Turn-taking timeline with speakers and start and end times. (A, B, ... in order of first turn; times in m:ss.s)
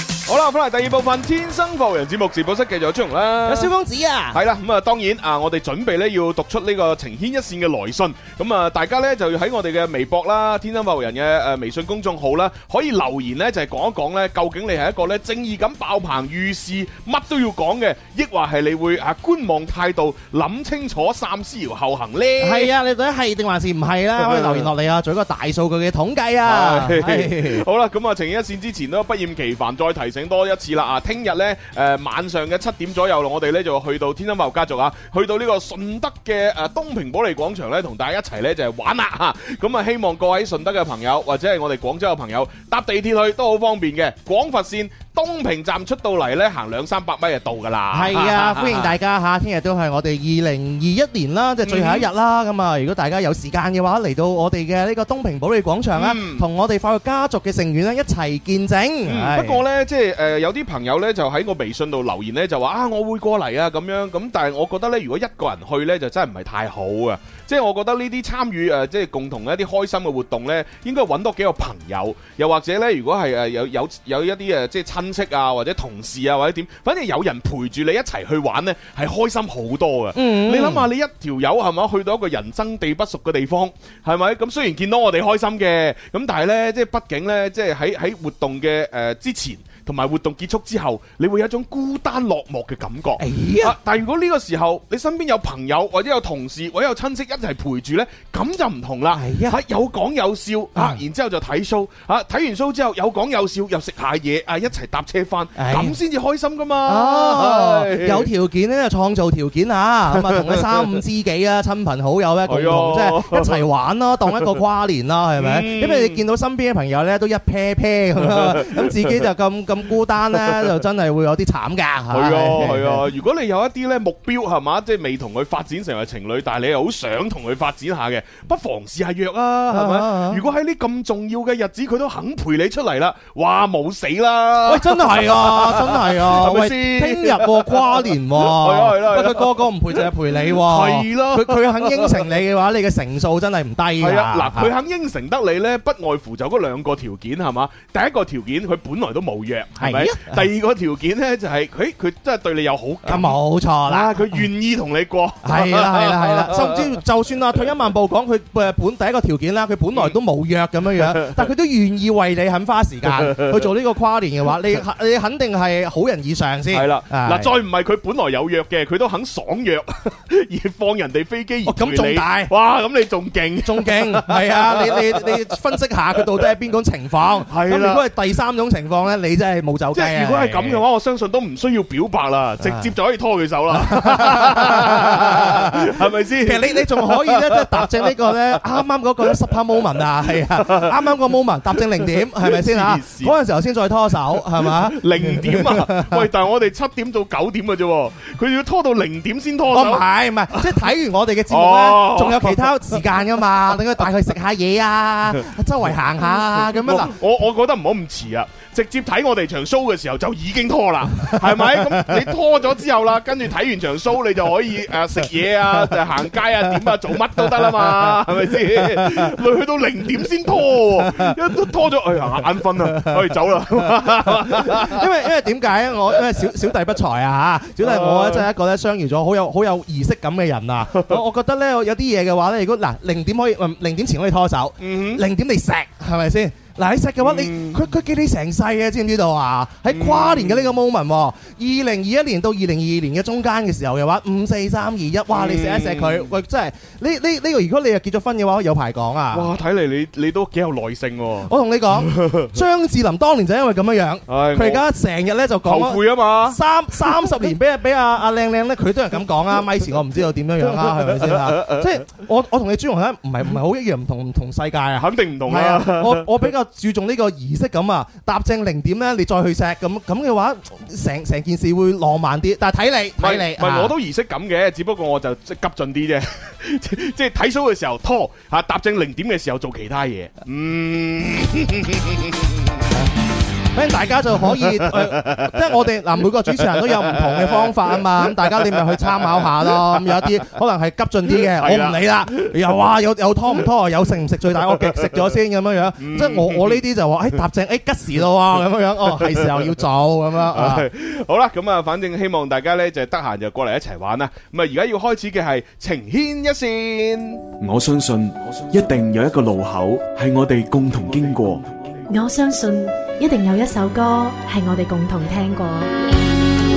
0:00.2-0:03.7 A
0:03.4-0:04.4 B
0:04.3-0:22.7 A
0:22.4-0:27.6 B
0:24.2-0:24.7 A
0:26.4-0:48.9 A
0:47.9-0:59.6 B
0:51.6-0:52.1 A
0:55.9-0:56.4 A
0:59.0-1:48.3 A
1:20.1-1:20.9 B
1:33.2-1:33.8 B
1:39.1-1:39.6 B
1:40.7-1:41.0 B
1:45.6-1:46.0 B
1:46.8-2:03.0 B
1:50.1-1:51.0 A
1:52.5-1:53.6 A
1:55.4-1:56.2 A
1:58.2-1:59.2 A
2:02.1-2:22.3 A
2:09.7-2:10.4 B
2:14.6-2:24.7 B
2:24.0-2:37.0 A
2:29.8-2:30.5 B
2:33.0-2:34.4 B
2:35.4-2:47.5 B
2:41.0-2:41.5 A
2:43.1-2:43.7 A
2:46.7-2:55.4 A
2:51.6-2:52.5 B
2:53.6-3:00.8 B
2:57.5-2:58.0 A
2:59.9-3:08.6 A
3:02.6-3:02.9 B
3:03.7-3:16.3 B
3:10.3-3:11.1 A
3:11.8-3:13.4 A
3:14.6-3:20.8 A
3:19.7-3:27.1 B
3:21.5-3:22.8 A
3:26.7-3:45.0 A
3:31.4-3:32.1 B
3:37.4-3:39.3 B
3:41.0-3:41.3 B
3:42.9-3:43.2 B
3:44.2-4:09.5 B
3:47.8-3:48.5 A
3:50.9-3:51.2 A
3:54.8-3:55.2 A
3:57.2-3:57.8 A
3:59.9-4:00.8 A
4:05.3-4:06.3 A
4:09.3-4:12.5 A
4:11.4-4:33.9 B
4:14.3-4:14.8 A
4:15.6-4:17.5 A
4:20.8-4:21.9 A
4:25.0-4:26.5 A
4:33.2-4:42.4 A
4:43.7-5:00.9 B
4:44.5-4:45.6 A
4:46.6-4:50.3 A
4:51.2-4:52.8 A
4:54.7-4:55.2 A
4:56.0-4:56.8 A
4:59.1-4:59.8 A
5:00.5-5:07.4 A
5:07.6-5:11.6 C
5:12.1-5:15.9 D